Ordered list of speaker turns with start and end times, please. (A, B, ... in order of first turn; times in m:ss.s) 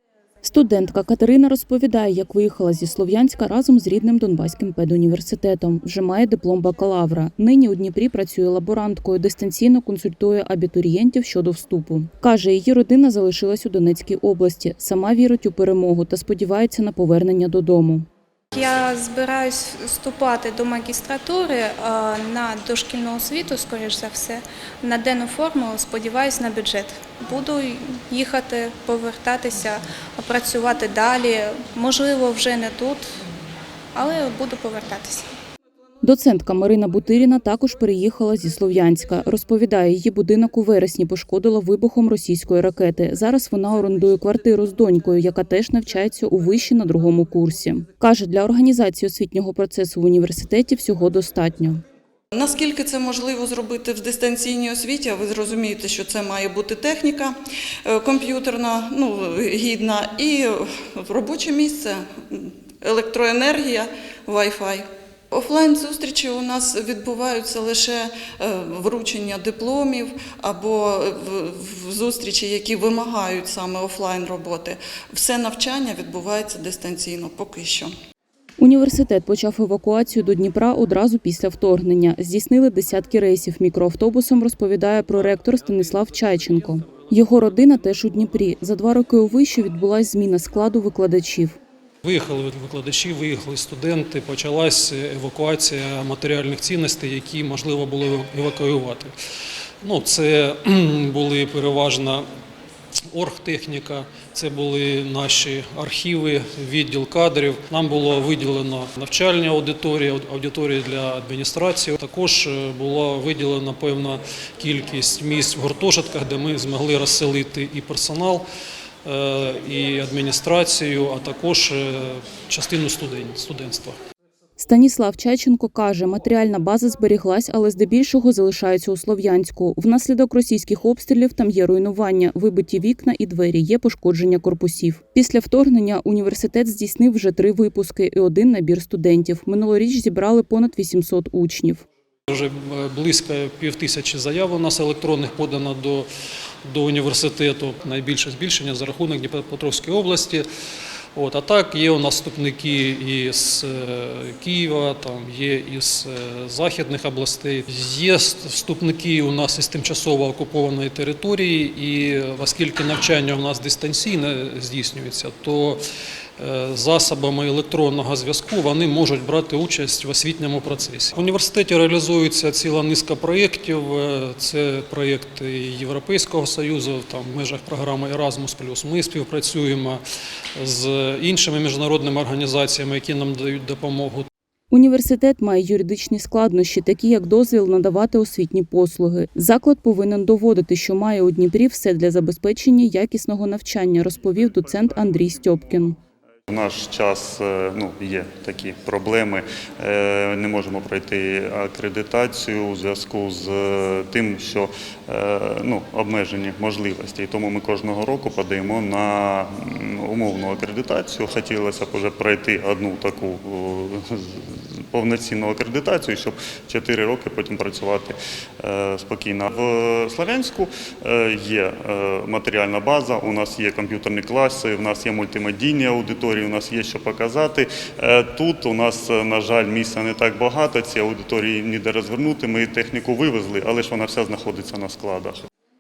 0:00.4-0:18.1 A
0:18.5-0:33.1 B
0:34.0-0:35.3 B
0:36.0-0:51.8 A
0:52.3-1:17.9 C
1:18.6-1:31.6 A
1:32.0-1:39.1 D
1:39.8-1:42.3 D
1:43.1-1:58.4 D
1:59.0-2:04.0 D
2:04.6-2:21.8 A
2:22.3-2:26.1 D
2:26.6-2:30.5 D
2:31.2-2:45.8 D
2:46.4-3:00.0 D
3:00.6-3:04.3 D
3:04.7-3:16.0 A
3:16.5-3:55.4 E